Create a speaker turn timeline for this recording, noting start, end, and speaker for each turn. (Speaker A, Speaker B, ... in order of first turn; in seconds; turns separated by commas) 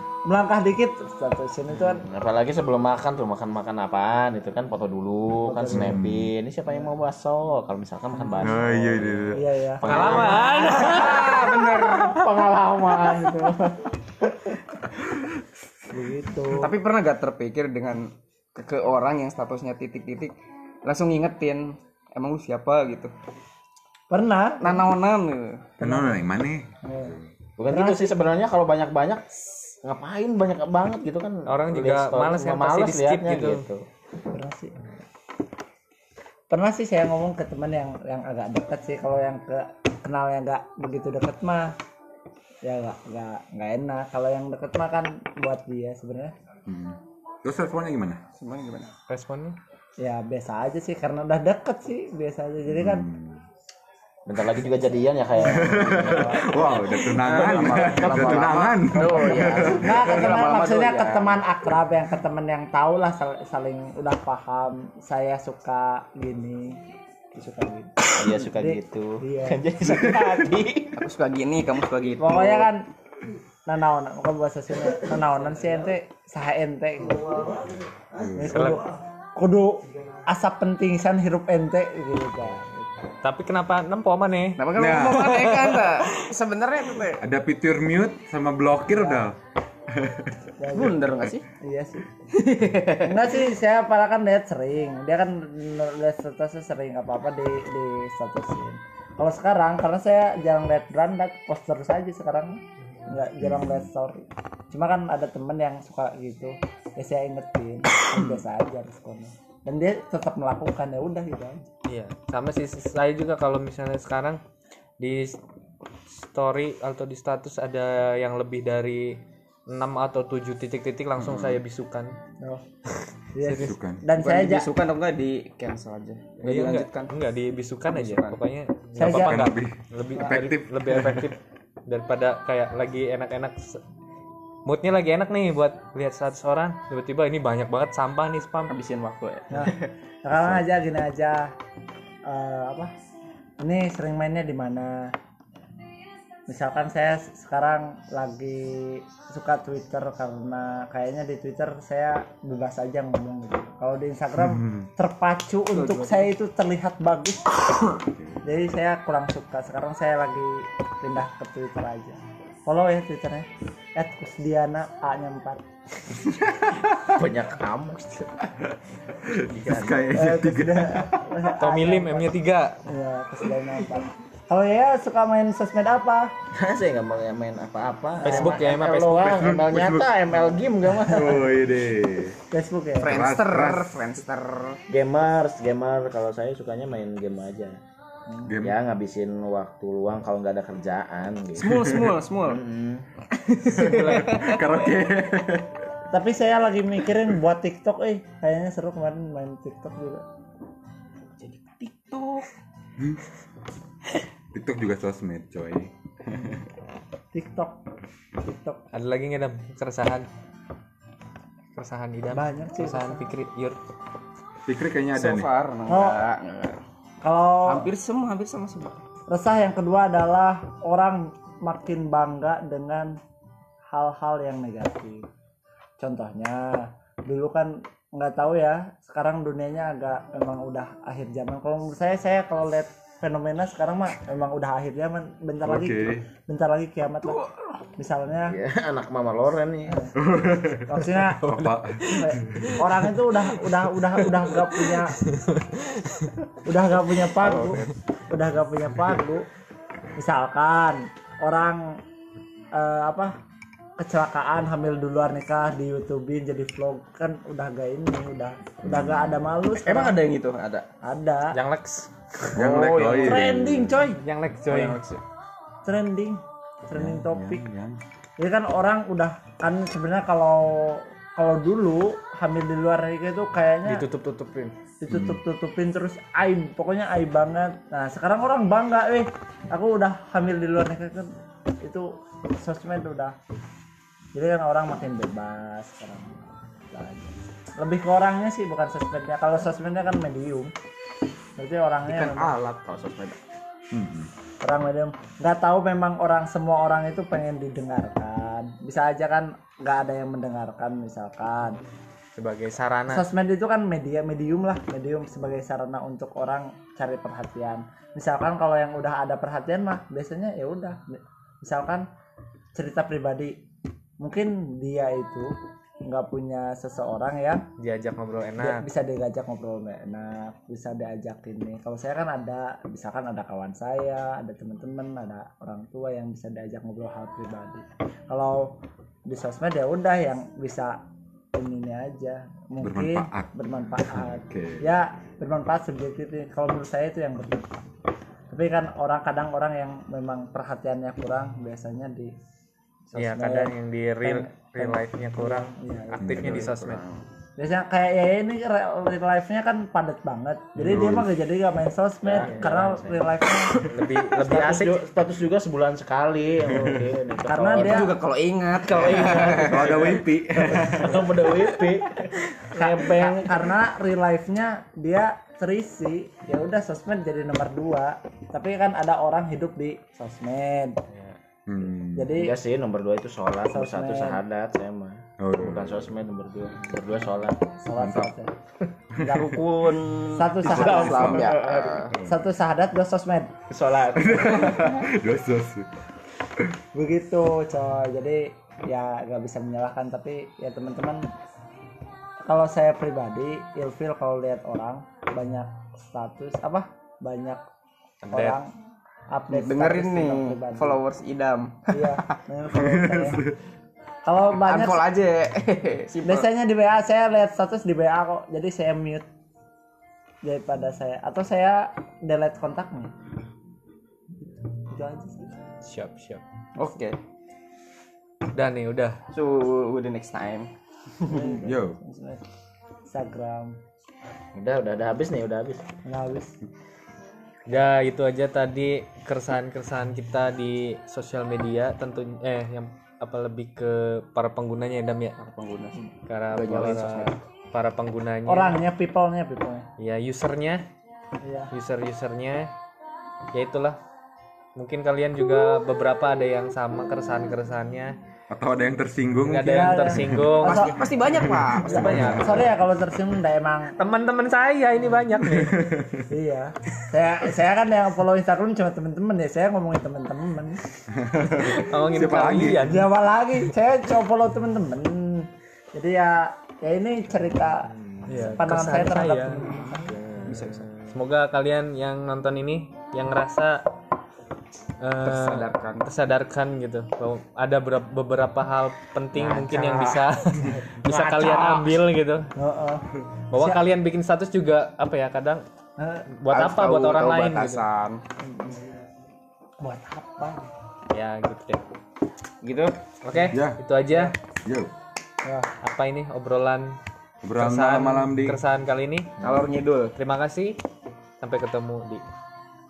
Speaker A: 0.3-2.0, Speaker B: 1.7-13.6, Speaker A: 5.4-5.9, Speaker C: 5.7-6.3, Speaker A: 8.2-8.5, Speaker C: 8.4-10.6, Speaker A: 9.3-10.2, Speaker D: 9.9-11.5, Speaker E: 10.5-12.3, Speaker A: 13.0-13.5, Speaker A: 15.9-16.7, Speaker E: 16.5-20.3, Speaker E: 20.9-23.1, Speaker A: 24.1-24.8, Speaker E: 24.6-25.7, Speaker C: 25.8-27.3, Speaker A: 25.8-26.2, Speaker A: 26.8-27.2, Speaker B: 27.6-33.8, Speaker A: 27.7-28.1, Speaker D: 31.5-33.7, Speaker A: 34.3-34.9, Speaker A: 36.5-41.8, Speaker A: 42.6-46.3, Speaker C: 46.7-48.2, Speaker E: 48.4-49.0, Speaker D: 49.1-49.6, Speaker A: 50.0-53.1, Speaker C: 52.7-53.4, Speaker B: 54.3-60.3, Speaker C: 55.4-60.0, Speaker E: 56.1-61.4, Speaker A: 59.8-66.8, Speaker A: 67.3-69.6, Speaker B: 68.2-71.0, Speaker E: 71.0-72.7, Speaker A: 72.2-72.9, Speaker A: 73.7-77.6, Speaker C: 78.1-78.7, Speaker A: 78.3-82.9, Speaker D: 78.5-78.8, Speaker D: 83.2-85.7, Speaker E: 84.6-87.2, Speaker C: 84.8-85.4, Speaker C: 87.2-89.4, Speaker A: 88.9-89.3, Speaker C: 89.9-90.4, Speaker A: 90.6-91.0, Speaker E: 90.7-91.5, Speaker A: 91.6-92.1, Speaker E: 92.3-93.2, Speaker A: 93.0-111.7, Speaker C: 103.4-103.9, Speaker D: 111.9-114.4, Speaker D: 115.0-115.4, Speaker D: 116.1-122.2, Speaker C: 121.2-121.6, Speaker A: 123.3-124.7, Speaker D: 123.5-123.7, Speaker C: 123.5-124.0, Speaker E: 124.2-127.1, Speaker D: 126.4-133.8, Speaker E: 127.9-128.4, Speaker A: 129.0-129.6, Speaker C: 129.0-131.4, Speaker D: 134.7-138.8, Speaker E: 138.7-139.9, Speaker A: 139.5-141.5, Speaker A: 142.3-142.9, Speaker A: 143.6-145.1, Speaker A: 146.5-157.6, Speaker E: 155.7-156.3, Speaker C: 158.0-158.4, Speaker A: 158.4-165.7, Speaker B: 166.2-168.5, Speaker C: 169.2-171.2, Speaker B: 169.3-170.1, Speaker A: 170.1-172.3, Speaker D: 171.6-172.8, Speaker A: 172.9-176.3, Speaker B: 176.5-181.5, Speaker A: 178.2-178.7, Speaker D: 178.2-179.5, Speaker C: 179.3-180.1, Speaker C: 180.9-182.4, Speaker A: 182.5-183.2, Speaker E: 183.0-184.8, Speaker C: 183.1-184.1, Speaker B: 184.9-187.8, Speaker A: 188.3-188.5, Speaker C: 188.5-188.8, Speaker B: 188.6-193.1, Speaker E: 191.6-192.6, Speaker E: 193.3-194.7, Speaker C: 193.7-195.8, Speaker D: 193.8-194.4, Speaker A: 196.1-200.2, Speaker E: 201.4-202.5, Speaker C: 204.5-206.6, Speaker A: 207.3-207.8, Speaker A: 208.4-208.8, Speaker D: 208.9-210.3, Speaker D: 211.8-213.8, Speaker A: 212.3-213.3, Speaker C: 214.7-215.5, Speaker E: 215.2-216.8, Speaker A: 215.9-216.2, Speaker A: 217.2-217.9, Speaker E: 217.7-219.0, Speaker A: 219.3-223.2, Speaker A: 223.9-225.3, Speaker A: 226.0-238.6, Speaker C: 235.6-236.3, Speaker E: 237.3-237.8, Speaker B: 238.5-240.0, Speaker A: 239.9-240.2, Speaker C: 240.2-242.7, Speaker A: 240.9-241.4, Speaker D: 241.4-246.3, Speaker A: 242.1-245.2, Speaker A: 246.7-249.5, Speaker E: 247.4-248.0, Speaker A: 250.2-252.0, Speaker A: 252.7-253.3, Speaker A: 254.0-260.2, Speaker C: 258.8-259.4, Speaker E: 259.8-260.9, Speaker A: 261.0-261.6, Speaker D: 261.5-262.9, Speaker C: 262.6-264.1, Speaker A: 262.6-264.2, Speaker E: 262.8-263.3, Speaker D: 264.2-265.0, Speaker E: 264.7-265.2, Speaker A: 265.9-267.6, Speaker C: 266.9-268.0, Speaker A: 268.4-274.0, Speaker D: 273.9-274.7, Speaker A: 275.0-281.3, Speaker C: 275.1-275.4, Speaker A: 281.8-283.4, Speaker A: 284.4-290.7, Speaker A: 291.6-292.5, Speaker E: 292.1-293.4, Speaker C: 293.9-294.3, Speaker A: 294.6-301.8, Speaker D: 302.4-303.2, Speaker A: 303.1-312.1, Speaker A: 312.8-313.6, Speaker A: 314.2-315.5, Speaker A: 316.1-317.7, Speaker D: 317.8-318.9, Speaker A: 318.6-331.0, Speaker A: 331.5-337.8, Speaker C: 332.8-334.8, Speaker A: 338.5-342.4, Speaker A: 343.1-346.4, Speaker D: 343.2-347.0, Speaker C: 346.2-347.0, Speaker E: 346.5-347.1, Speaker A: 347.6-353.7, Speaker C: 350.8-351.3, Speaker B: 352.2-353.3, Speaker D: 352.4-352.8, Speaker D: 353.8-355.0, Speaker B: 354.4-358.2, Speaker A: 357.5-358.1, Speaker E: 357.8-360.1, Speaker B: 358.9-363.5, Speaker C: 359.4-361.4, Speaker A: 362.7-371.0, Speaker D: 371.1-371.4, Speaker C: 371.7-372.4, Speaker A: 372.1-372.5, Speaker B: 372.4-377.6, Speaker A: 373.7-374.4, Speaker C: 375.4-376.1, Speaker A: 377.8-378.6, Speaker C: 378.0-378.3, Speaker C: 379.2-379.5, Speaker A: 379.2-379.6, Speaker E: 379.3-382.2, Speaker A: 380.3-383.5, Speaker C: 380.6-381.5, Speaker E: 383.7-385.0, Speaker C: 384.2-385.9, Speaker A: 386.9-391.3, Speaker A: 392.4-397.6, Speaker D: 398.2-398.6, Speaker A: 398.3-398.7, Speaker A: 399.3-401.0, Speaker E: 399.5-402.4, Speaker A: 401.9-403.4, Speaker C: 402.7-403.6, Speaker A: 404.2-405.0, Speaker E: 404.6-406.5, Speaker A: 406.2-409.3, Speaker A: 410.4-413.1, Speaker A: 414.4-415.6, Speaker D: 415.8-416.4, Speaker E: 416.8-417.2, Speaker D: 418.5-419.2, Speaker E: 419.3-420.7, Speaker A: 421.2-422.4, Speaker C: 421.6-422.0, Speaker A: 423.1-423.8, Speaker B: 424.5-425.8, Speaker A: 426.1-426.6, Speaker D: 427.7-435.4, Speaker E: 435.4-436.0, Speaker D: 436.3-438.8, Speaker E: 436.5-437.4, Speaker A: 438.5-439.9, Speaker D: 440.0-440.8, Speaker A: 441.4-441.7, Speaker D: 441.7-442.7, Speaker D: 443.5-444.0, Speaker D: 444.8-448.1, Speaker C: 448.5-450.5, Speaker D: 449.4-451.1, Speaker A: 449.6-453.9, Speaker E: 450.6-452.7, Speaker D: 451.9-452.6, Speaker C: 452.1-452.6, Speaker D: 454.0-455.8, Speaker C: 455.4-456.3, Speaker A: 456.3-460.8, Speaker C: 461.1-462.9, Speaker D: 461.6-463.1, Speaker A: 462.5-470.1, Speaker D: 468.3-469.7, Speaker E: 470.1-471.1, Speaker B: 470.1-470.6, Speaker D: 470.5-473.8, Speaker D: 475.0-482.5, Speaker E: 475.2-476.1, Speaker E: 479.4-480.2, Speaker B: 481.1-481.6, Speaker E: 481.2-481.9, Speaker A: 482.6-483.1, Speaker D: 483.5-485.6, Speaker A: 483.6-483.8, Speaker A: 486.0-486.3, Speaker D: 486.4-487.8, Speaker E: 486.5-488.2, Speaker A: 488.4-488.8, Speaker A: 489.8-490.7, Speaker D: 491.1-491.8, Speaker E: 492.6-492.9, Speaker D: 493.2-494.3, Speaker C: 493.5-493.8, Speaker C: 494.6-494.9, Speaker D: 495.8-497.0, Speaker C: 497.4-498.6, Speaker D: 497.6-499.3, Speaker E: 499.4-500.1, Speaker B: 499.4-499.7, Speaker D: 500.2-500.8, Speaker D: 501.4-502.2